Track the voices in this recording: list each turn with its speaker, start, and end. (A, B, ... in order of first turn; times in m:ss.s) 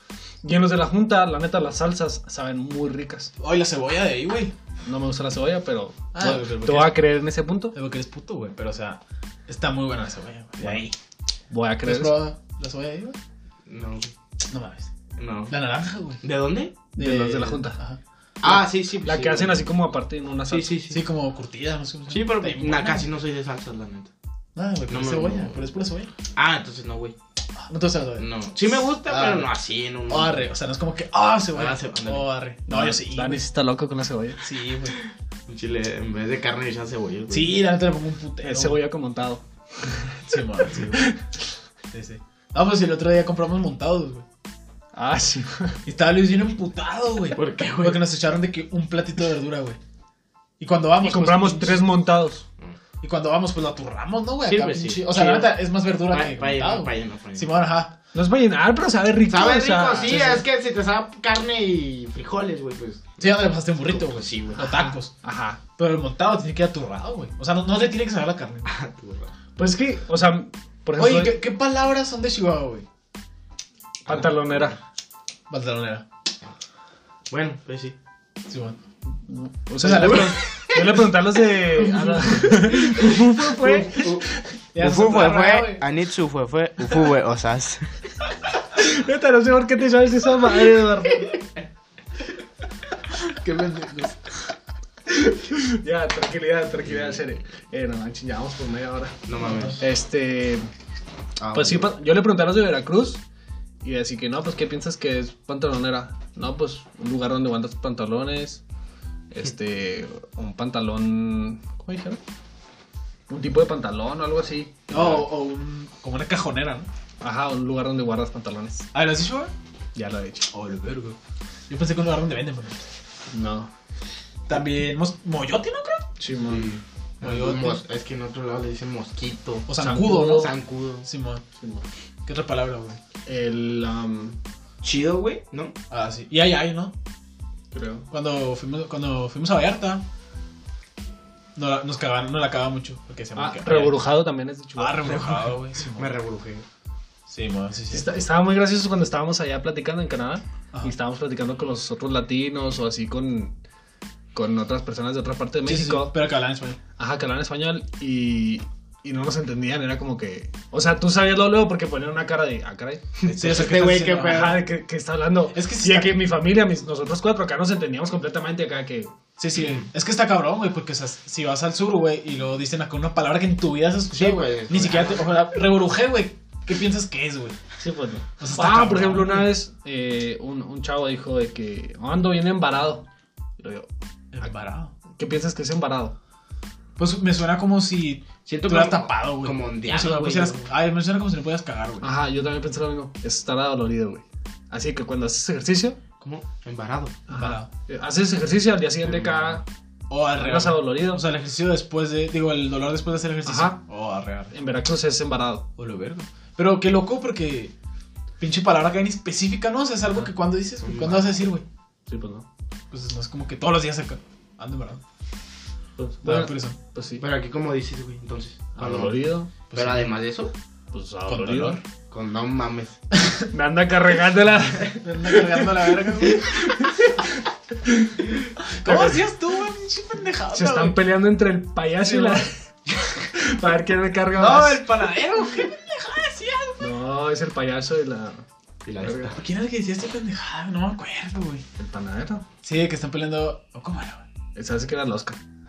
0:00.4-0:03.3 A
0:03.4-0:04.5 B
0:04.9-0:07.8 A
0:06.1-0:07.0 B
0:07.7-0:10.9 B
0:10.6-0:10.8 A
0:11.5-0:12.2 A
0:11.8-0:13.2 B
0:13.7-0:14.1 C
0:14.4-0:14.9 B
0:15.2-0:15.5 C
0:15.5-0:16.2 B
0:16.2-0:16.8 C
0:17.0-0:18.0 B
0:17.0-0:17.8 A
0:18.4-0:19.7 C
0:18.4-0:20.8 A
0:20.5-0:21.0 C
0:20.9-0:23.1 B
0:22.1-0:24.1 C
0:24.6-0:26.1 B
0:24.9-0:25.6 C
0:26.3-0:27.2 C
0:27.7-0:28.3 B
0:28.2-0:30.5 C
0:29.1-0:29.5 B
0:30.1-0:33.4 B
0:31.5-0:32.3 C
0:32.7-0:34.4 A
0:34.4-0:35.0 B
0:35.5-0:37.6 C
0:37.3-0:38.8 B
0:38.4-0:39.4 A
0:40.3-0:41.1 B
0:41.9-0:44.2 B
0:45.0-0:45.8 A
0:45.9-0:49.8 B
0:47.4-0:48.0 C
0:50.6-0:51.9 B
0:51.0-0:52.4 A
0:53.0-0:57.9 B
0:54.4-0:55.6 C
0:56.1-0:57.6 C
0:58.1-1:00.4 A
0:59.3-1:04.6 C
0:59.9-1:00.4 B
1:03.2-1:05.1 B
1:04.6-1:05.6 A
1:05.8-1:08.7 B
1:08.7-1:09.3 C
1:09.6-1:11.4 A
1:11.0-1:12.9 B
1:14.1-1:14.8 A
1:15.5-1:16.0 B
1:17.3-1:18.0 C
1:18.5-1:18.8 B
1:19.2-1:24.4 A
1:19.8-1:20.6 B
1:19.9-1:21.0 C
1:21.8-1:24.1 B
1:23.5-1:27.9 C
1:24.7-1:25.9 B
1:28.8-1:31.4 A
1:33.2-1:34.2 B
1:35.2-1:39.2 A
1:36.9-1:37.2 C
1:39.3-1:39.8 C
1:39.8-1:40.7 A
1:41.4-1:41.9 C
1:41.5-1:43.2 A
1:43.8-1:48.6 A
1:49.3-1:52.2 A
1:53.3-1:55.3 A
1:54.9-1:56.9 B
1:57.2-1:58.9 A
1:58.9-1:59.5 B
2:00.0-2:00.5 A
2:00.5-2:01.2 B
2:01.7-2:02.8 B
2:03.3-2:03.7 A
2:04.5-2:06.1 B
2:06.2-2:06.8 A
2:06.5-2:11.0 C
2:07.2-2:07.8 B
2:09.7-2:11.4 B
2:09.8-2:10.5 A
2:11.6-2:11.8 A
2:12.3-2:13.0 B
2:13.3-2:14.4 A
2:14.8-2:15.7 C
2:15.9-2:16.9 B
2:17.7-2:18.0 A
2:18.1-2:20.0 B
2:21.6-2:24.1 B
2:23.4-2:25.2 A
2:24.8-2:26.2 B
2:25.0-2:26.6 C
2:27.3-2:28.1 B
2:27.9-2:33.6 A
2:34.3-2:36.2 A
2:35.7-2:36.8 B
2:37.0-2:43.3 A
2:43.2-2:44.6 C
2:43.3-2:44.6 B
2:44.1-2:49.1 A
2:45.5-2:46.2 B
2:49.4-2:57.6 B
2:54.2-2:55.3 C
2:57.8-3:03.0 A
2:58.4-2:59.5 B
3:03.6-3:03.9 A
3:04.3-3:04.9 B
3:05.2-3:06.2 A
3:07.0-3:12.1 B
3:08.5-3:10.7 C
3:12.0-3:16.0 A
3:16.2-3:17.2 C
3:17.3-3:19.6 A
3:17.3-3:17.7 B
3:20.1-3:24.5 B
3:20.4-3:21.2 A
3:23.4-3:23.8 A
3:24.5-3:25.6 A
3:25.8-3:27.7 B
3:28.4-3:31.6 B
3:30.8-3:31.4 C
3:32.1-3:32.5 A
3:32.9-3:35.0 B
3:36.0-3:37.2 A
3:36.2-3:36.8 B
3:37.2-3:40.5 C
3:38.8-3:39.5 A
3:39.7-3:40.1 B
3:40.9-3:41.8 A
3:41.3-3:41.8 B
3:42.1-3:43.0 C
3:43.5-3:45.6 A
3:45.0-3:46.7 B
3:46.3-3:47.1 A
3:47.9-3:48.1 A
3:48.8-3:49.2 A
3:48.8-3:51.1 B
3:50.5-3:52.5 A
3:52.0-3:52.4 B
3:53.2-3:54.9 A
3:54.4-3:56.8 B
3:56.8-3:58.4 A
3:58.8-3:59.4 C
3:59.0-3:59.3 A
3:59.3-4:01.6 B
4:01.8-4:02.4 A
4:02.6-4:04.2 B
4:04.6-4:05.4 A